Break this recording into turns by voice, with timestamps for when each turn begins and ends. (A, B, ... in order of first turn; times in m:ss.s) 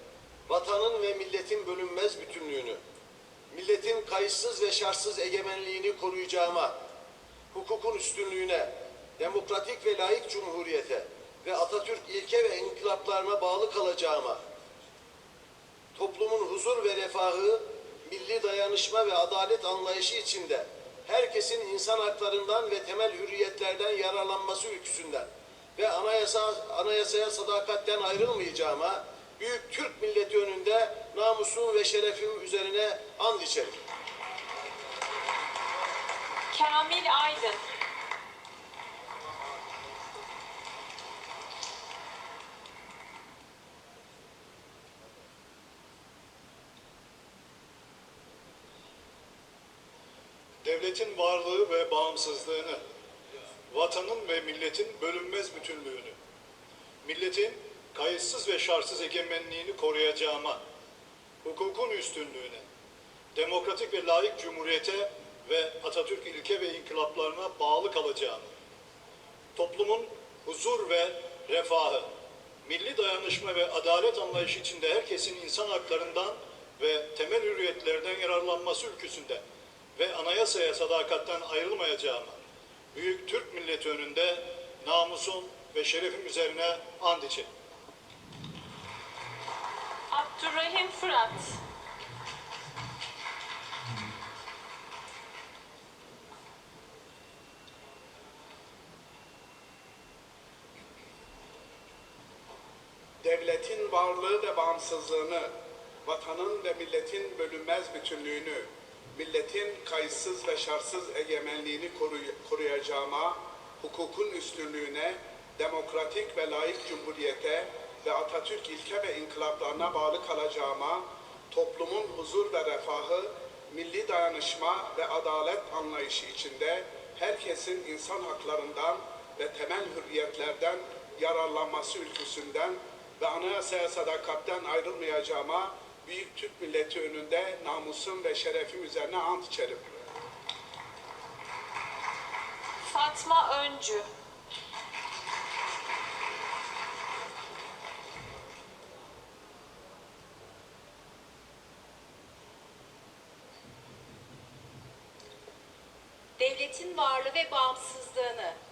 0:00.5-0:02.8 A
0:03.5-0:06.7 A
0:07.5-0:14.4 A
0:16.0-0:33.8 A
0:36.5-0:37.6 B
0:50.6-0:52.8 C
0:53.7-0:56.2 C
0:57.0-1:00.6 C
1:01.4-1:02.6 C
1:03.4-1:08.5 C
1:09.6-1:12.1 C
1:12.6-1:19.4 C
1:20.0-1:22.4 C
1:22.9-1:27.5 C
1:30.1-1:31.6 B
1:43.2-1:45.5 D
1:46.0-2:19.9 D
2:22.9-2:24.1 B
2:36.4-2:38.6 E